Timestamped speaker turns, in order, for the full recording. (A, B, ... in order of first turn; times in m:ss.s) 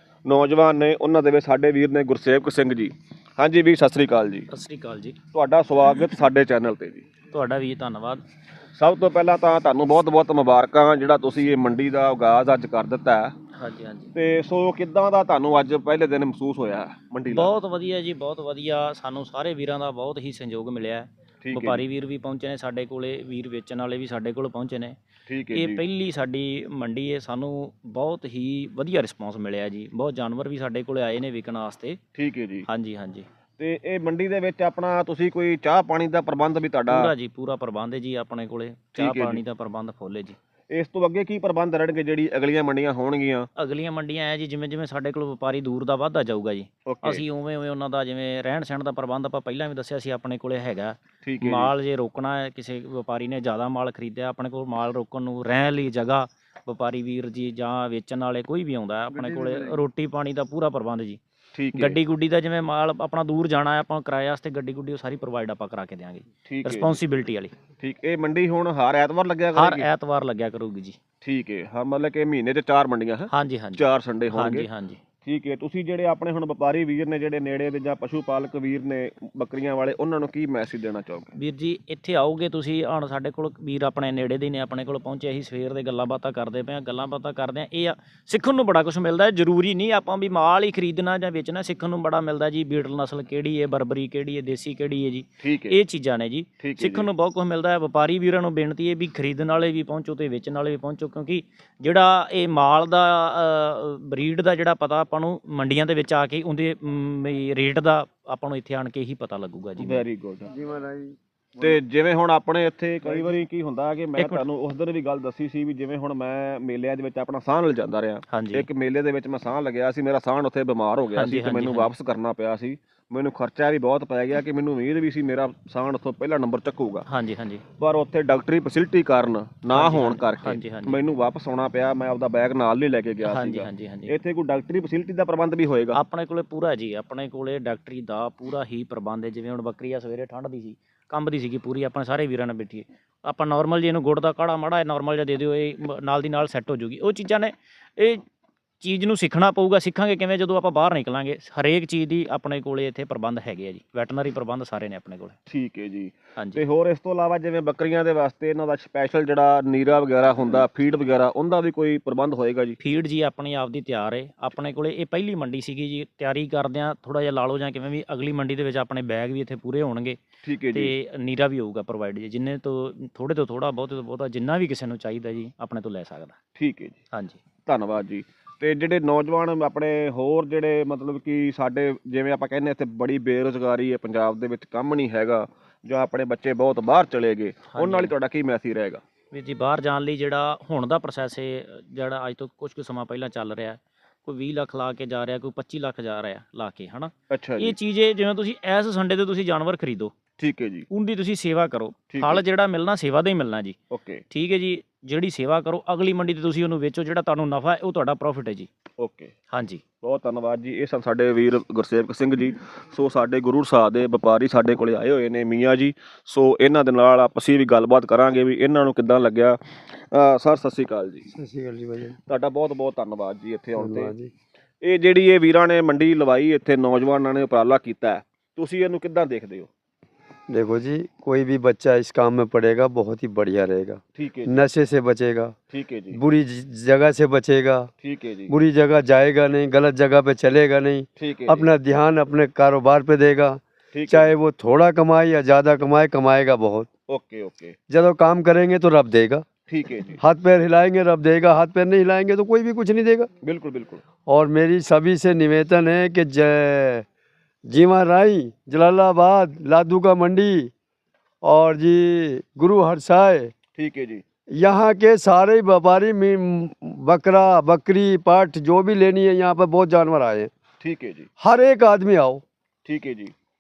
0:00.2-0:04.5 A
0:04.5-0:05.2 B
0:05.3-0:07.0 A
0:07.3-0:08.2 B
0:08.8-0:13.3 A
0:13.6-0:14.1 B
0:14.1-0:17.5 A
0:17.3-0:25.0 B
0:21.4-0:21.8 A
0:25.3-0:25.8 A
0:25.5-0:32.0 B
0:32.1-0:32.6 A
0:32.7-0:33.2 B
0:33.6-0:37.1 A
0:36.9-0:40.4 B
0:39.0-0:39.4 A
0:40.7-0:43.5 A
0:43.6-1:01.2 B
0:46.9-0:47.2 A
0:51.2-0:51.7 A
0:59.1-0:59.8 A
1:01.5-1:02.0 A
1:01.8-1:07.5 B
1:06.4-1:07.0 A
1:07.8-1:09.9 A
1:09.5-1:11.0 B
1:11.2-1:14.7 A
1:13.3-1:15.0 B
1:15.2-1:21.3 A
1:21.3-1:50.0 B
1:35.4-1:35.8 A
1:36.6-1:37.1 A
1:49.8-1:50.5 A
1:50.5-1:51.8 C
1:51.6-2:07.0 A
1:53.1-1:53.3 C
1:54.2-1:54.4 B
1:58.3-1:58.7 B
2:01.1-2:01.9 B
2:07.1-2:07.6 B
2:07.8-2:16.0 A
2:09.7-2:11.0 B
2:13.2-2:14.1 B
2:15.9-2:28.2 B
2:28.8-2:35.4 B
2:35.5-2:42.8 A
2:36.4-2:36.6 B
2:42.8-2:50.2 B
2:50.4-2:50.9 A
2:50.7-2:56.4 B
2:56.6-2:57.0 A
2:57.1-2:57.4 B
2:57.6-3:09.0 A
3:07.7-3:08.1 B
3:09.3-3:20.1 B
3:17.3-3:17.8 A
3:20.4-3:20.9 A
3:20.9-3:23.8 B
3:22.1-3:22.4 A
3:23.9-3:24.2 A
3:24.3-3:28.7 B
3:29.0-3:29.3 A
3:29.5-3:29.8 B
3:30.0-3:39.6 A
3:40.1-3:41.3 A
3:41.3-3:42.2 C
3:42.2-3:44.1 A
3:43.8-3:44.3 C
3:44.8-3:49.7 A
3:50.5-3:55.6 C
3:54.1-3:54.6 A
3:55.7-3:56.2 A
3:56.1-3:57.9 C
3:58.0-3:58.5 A
3:58.5-4:06.9 C
4:01.2-4:01.7 A
4:03.9-4:04.3 A
4:07.1-4:07.8 A
4:07.9-4:09.4 C
4:09.7-4:10.2 A
4:10.2-4:13.3 C
4:13.4-4:14.0 A
4:14.3-4:17.0 C
4:17.7-4:20.7 C
4:21.4-4:23.5 C
4:23.8-4:24.2 A
4:24.6-4:30.5 C
4:30.8-4:31.3 A
4:31.4-4:32.4 C
4:32.8-4:33.3 A